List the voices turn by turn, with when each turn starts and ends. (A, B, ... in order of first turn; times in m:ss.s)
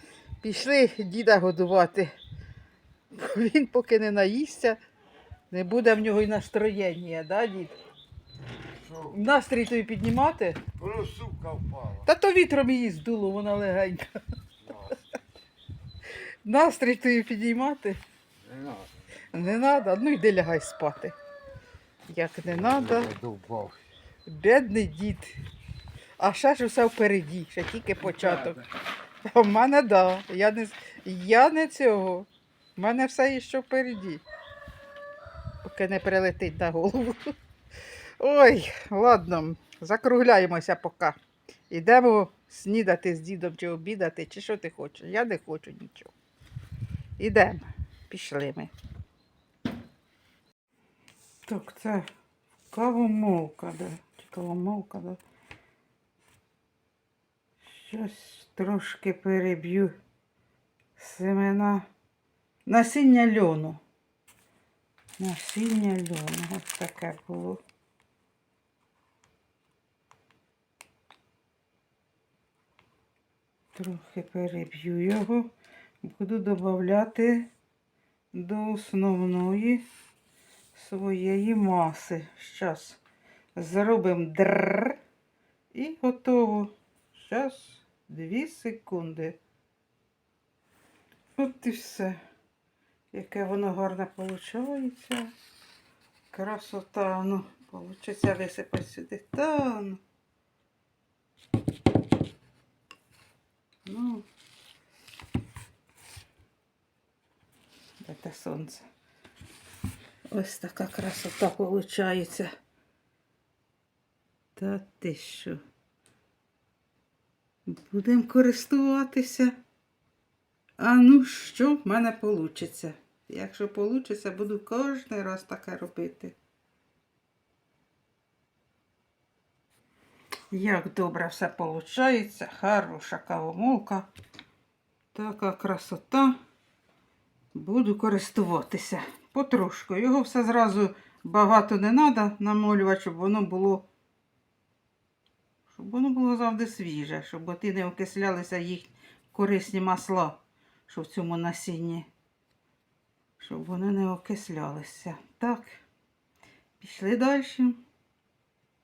0:00.4-0:02.1 A
0:03.1-0:04.8 A
0:05.5-0:07.7 A
0:08.7-0:09.2 B
0:09.1-0:10.6 A
0:10.8-0:12.1 B
0:12.0-0:14.2 A
0:14.6-0:15.2 B
0:16.4-0:18.0 A
0:18.4-0:18.9 B
0:19.3-0:21.1 A
0:22.1-0:23.1 A
0:22.5-0:23.8 B
0:24.2-0:25.3 A
0:26.2-0:28.6 A
0:28.0-0:28.6 B
0:29.2-0:34.2 A
0:35.6-0:37.3 A
0:38.2-0:41.2 A
0:41.7-0:46.1 A
0:47.2-0:48.7 A
0:51.4-0:52.1 A
0:52.7-0:55.2 A
0:57.6-0:59.9 A
1:01.0-1:01.8 A
1:02.6-1:03.8 A
1:05.2-1:07.6 A
1:13.7-1:17.5 A
1:18.3-1:19.8 A
1:20.7-1:23.0 A
1:23.5-1:25.0 A
1:25.7-1:29.4 A
1:31.4-1:32.2 A
1:33.1-1:35.3 A
1:36.3-1:40.0 A
1:43.8-1:44.2 A
1:48.0-1:48.9 A
1:50.3-1:52.5 A
1:54.6-1:55.6 A
1:57.6-1:59.6 A
2:00.8-2:06.3 A
2:10.5-2:14.1 A
2:15.1-2:16.3 A
2:17.5-2:23.8 A
2:25.7-2:32.1 A
2:33.4-2:35.8 A
2:36.8-2:37.8 A